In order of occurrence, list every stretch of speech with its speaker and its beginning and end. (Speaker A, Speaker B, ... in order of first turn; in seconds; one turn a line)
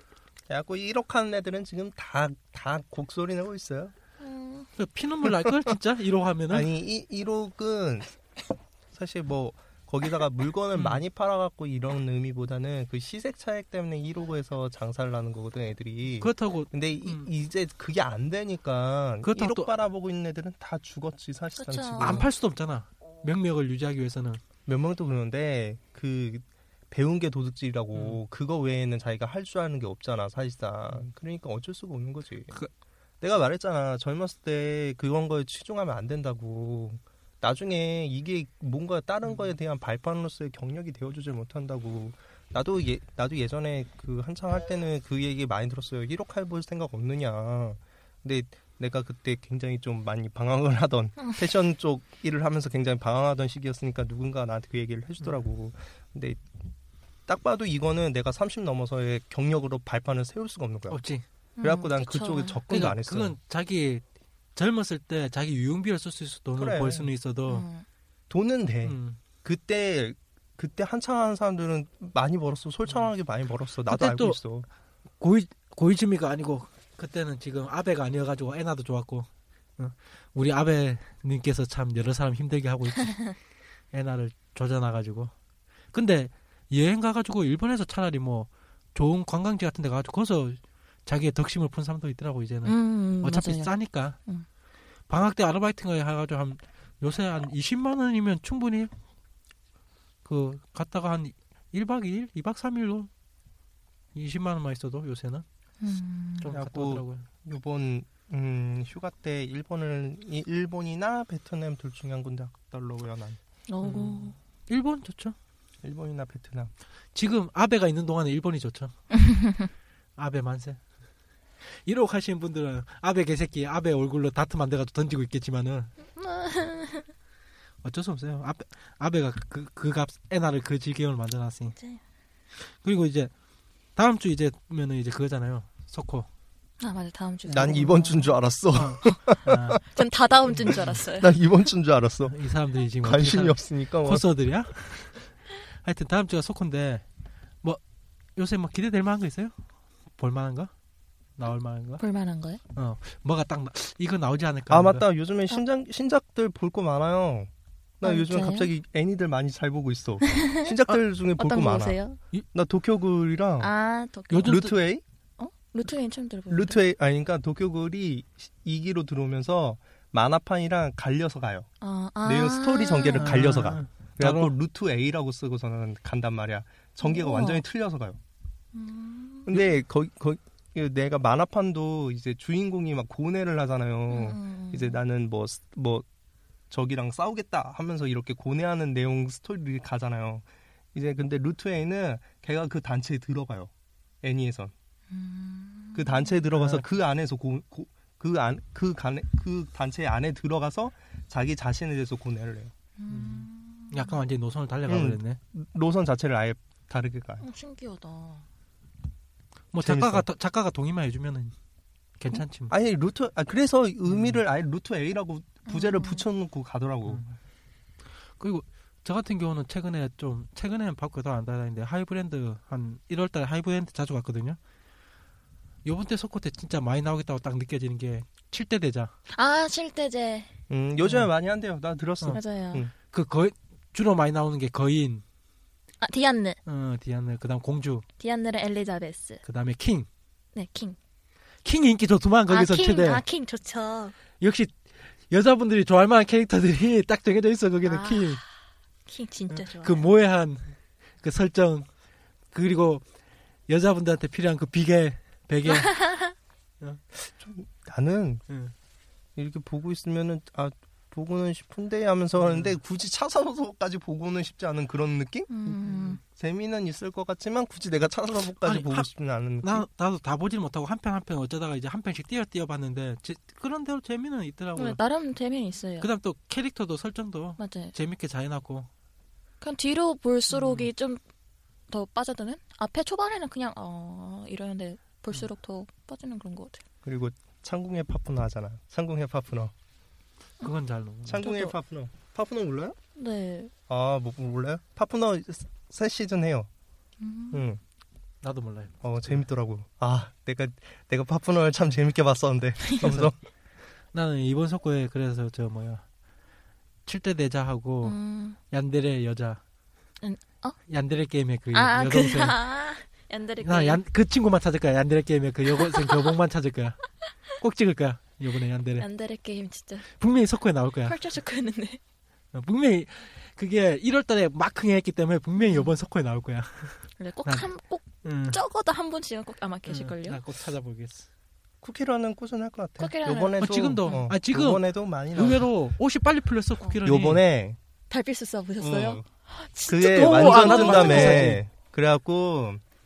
Speaker A: 0.5-3.9
Speaker B: 4.2-4.7
Speaker C: 4.8-6.7
Speaker A: 5.4-5.7
Speaker A: 6.5-8.1
Speaker A: 8.9-22.3
Speaker C: 10.7-11.0
Speaker C: 16.2-17.3
Speaker C: 19.2-19.7
Speaker B: 21.6-22.2
Speaker C: 22.0-24.4
Speaker A: 24.6-32.5
Speaker C: 27.9-28.2
Speaker A: 33.2-56.4
Speaker B: 51.2-51.5
Speaker A: 57.3-61.0
Speaker C: 60.9-61.2
Speaker B: 61.6-62.6
Speaker A: 61.6-63.4
Speaker C: 62.7-64.0
Speaker C: 64.5-67.7
Speaker A: 66.6-67.1
Speaker B: 67.5-67.8
Speaker A: 68.3-74.7
Speaker C: 68.8-69.2
Speaker C: 73.9-74.4
Speaker C: 75.2-83.3
Speaker C: 83.9-85.3
Speaker C: 85.9-94.2
Speaker B: 92.6-94.5
Speaker C: 95.1-98.9
Speaker C: 100.2-103.1
Speaker C: 104.1-105.4
Speaker B: 105.8-106.5
Speaker C: 106.4-107.3
Speaker A: 106.5-113.4
Speaker B: 113.7-114.3
Speaker C: 113.8-115.3
Speaker A: 115.8-116.7
Speaker C: 117.1-118.9
Speaker B: 119.2-119.7
Speaker C: 120.2-120.8
Speaker C: 121.8-125.9
Speaker B: 126.1-127.1
Speaker C: 127.8-131.8
Speaker C: 132.7-133.3
Speaker C: 133.9-136.3
Speaker B: 136.8-138.3
Speaker A: 137.4-139.8
Speaker C: 138.7-139.8
Speaker B: 139.9-141.3
Speaker A: 140.7-142.4
Speaker C: 142.2-147.0
Speaker A: 143.0-144.2
Speaker C: 148.3-149.5
Speaker C: 150.2-150.7
Speaker C: 151.4-152.0
Speaker B: 152.0-152.6
Speaker C: 152.7-155.1
Speaker A: 154.7-162.0
Speaker B: 158.0-158.7
Speaker B: 160.3-160.8
Speaker B: 161.4-162.2
Speaker A: 162.5-163.7
Speaker B: 163.6-164.6
Speaker C: 164.3-164.7
Speaker A: 164.4-165.0
Speaker B: 165.4-166.8
Speaker A: 166.5-171.7
Speaker B: 171.8-173.3
Speaker A: 172.2-178.2
Speaker C: 173.2-174.5
Speaker B: 177.0-177.6
Speaker B: 178.7-179.5
Speaker A: 179.5-186.1
Speaker B: 184.1-185.0
Speaker A: 186.7-193.7
Speaker A: 194.2-194.7
Speaker B: 195.1-196.4
Speaker A: 195.9-202.7
Speaker C: 196.5-196.9
Speaker B: 203.0-204.2
Speaker C: 203.1-205.4
Speaker A: 204.9-207.4
Speaker B: 207.4-208.4
Speaker C: 209.7-211.6
Speaker A: 209.8-210.3
Speaker C: 212.2-212.7
Speaker A: 212.3-217.2
Speaker C: 214.1-214.4
Speaker B: 215.7-216.2
Speaker C: 217.1-217.4
Speaker C: 218.4-224.6
Speaker C: 225.8-229.1
Speaker B: 229.3-230.5
Speaker A: 230.7-232.9
Speaker C: 231.0-231.3
Speaker B: 232.3-232.9
Speaker C: 233.0-235.2
Speaker B: 236.0-236.6
Speaker C: 236.7-238.1
Speaker B: 238.2-239.4
Speaker C: 239.4-240.1
Speaker B: 240.5-241.0
Speaker C: 241.6-243.2
Speaker B: 242.5-244.1
Speaker C: 244.4-248.4
Speaker B: 247.8-248.5
Speaker B: 249.1-250.1
Speaker C: 249.5-251.9
Speaker C: 252.5-253.1
Speaker C: 253.7-255.9
Speaker B: 255.7-256.3
Speaker A: 257.1-258.4
Speaker A: 259.4-265.6
Speaker C: 262.4-262.8
Speaker B: 265.5-266.2
Speaker C: 265.7-266.2
Speaker A: 266.2-269.8
Speaker C: 268.6-269.1
Speaker C: 269.6-275.0
Speaker B: 274.8-276.1
Speaker C: 276.0-278.9
Speaker B: 277.6-277.9
Speaker B: 279.6-281.2
Speaker C: 280.5-280.9
Speaker B: 281.9-286.8
Speaker A: 287.1-289.7
Speaker C: 290.6-291.4
Speaker A: 291.2-293.0
Speaker B: 291.4-291.7
Speaker B: 293.1-293.7
Speaker A: 293.9-296.7
Speaker B: 297.2-297.6
Speaker A: 297.5-297.8
Speaker C: 298.4-299.4
Speaker A: 299.0-303.4
Speaker C: 303.0-303.3
Speaker C: 304.1-306.1
Speaker C: 307.1-308.2
Speaker B: 308.0-308.6
Speaker C: 308.7-309.6
Speaker B: 310.2-310.8
Speaker C: 310.9-312.6
Speaker B: 311.7-314.0
Speaker C: 313.6-317.0
Speaker B: 315.8-316.3
Speaker C: 317.6-319.1
Speaker B: 319.0-320.1
Speaker C: 320.1-321.1
Speaker B: 321.0-322.0
Speaker C: 322.5-327.7
Speaker B: 325.6-325.9
Speaker B: 327.2-330.4
Speaker C: 328.2-328.6
Speaker C: 329.9-331.3
Speaker A: 331.8-335.7
Speaker B: 333.0-334.3
Speaker C: 333.6-337.4
Speaker A: 337.0-337.8
Speaker B: 338.1-341.6
Speaker A: 338.8-339.2
Speaker A: 339.9-342.8
Speaker C: 340.1-341.6